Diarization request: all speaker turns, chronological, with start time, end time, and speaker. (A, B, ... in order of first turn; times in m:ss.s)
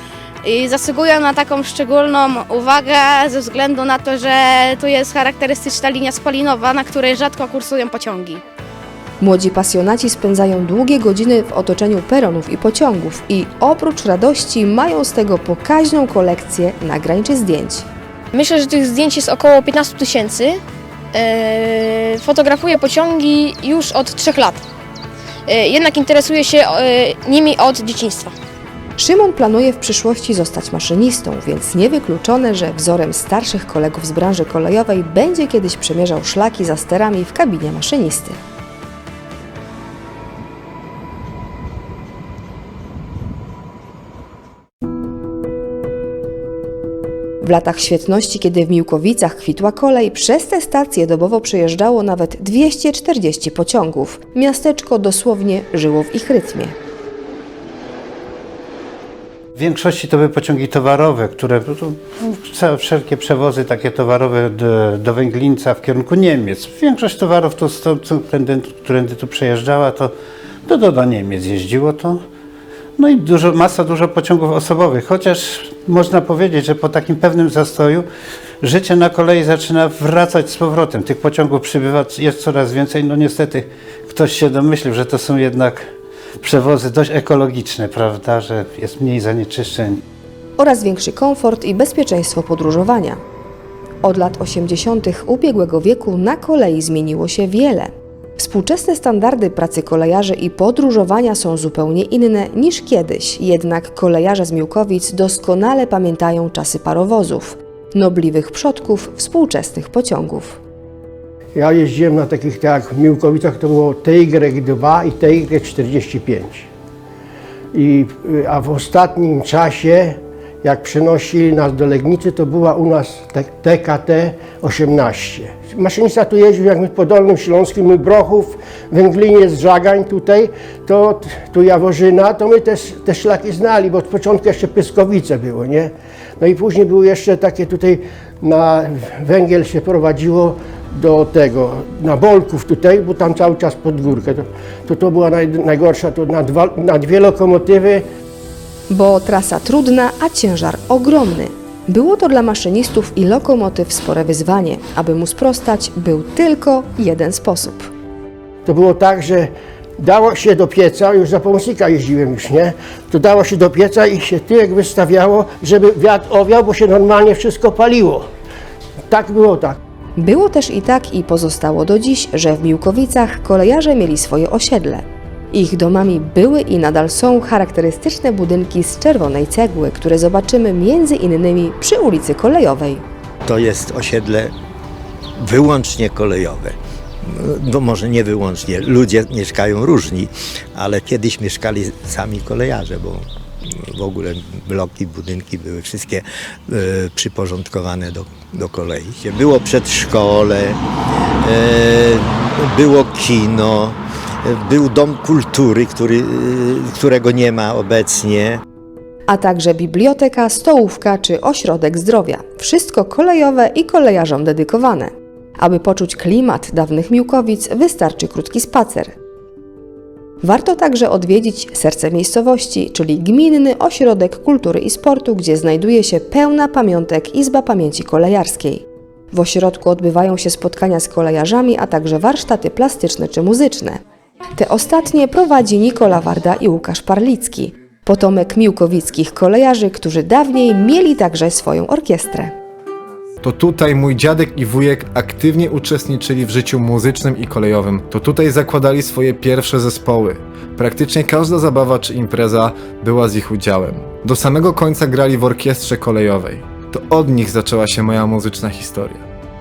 0:00.4-0:08.3 A
0:09.2-0:17.8 B
0:18.3-0:20.6 C
0:21.1-0:24.6 C
0:25.5-0:28.3 C
0:29.0-0:38.4 B
0:47.4-0:56.7 B
0:59.6-1:10.1 D
1:10.6-1:12.2 D
1:13.0-1:18.0 D
1:18.6-1:25.8 D
1:26.4-1:30.0 D
1:30.6-1:33.2 B
1:34.0-1:50.6 B
1:51.6-1:56.7 E
1:57.7-2:15.9 E
2:16.4-2:28.0 E
2:28.9-2:37.9 B
2:38.6-2:48.2 E
2:49.1-2:49.8 E
2:50.2-3:03.0 B
3:03.4-3:04.5 F
3:05.4-3:20.8 F
3:21.4-3:28.6 F
3:29.3-3:39.1 B
3:40.4-3:54.0 B
3:54.6-4:02.5 B
4:03.4-4:19.2 G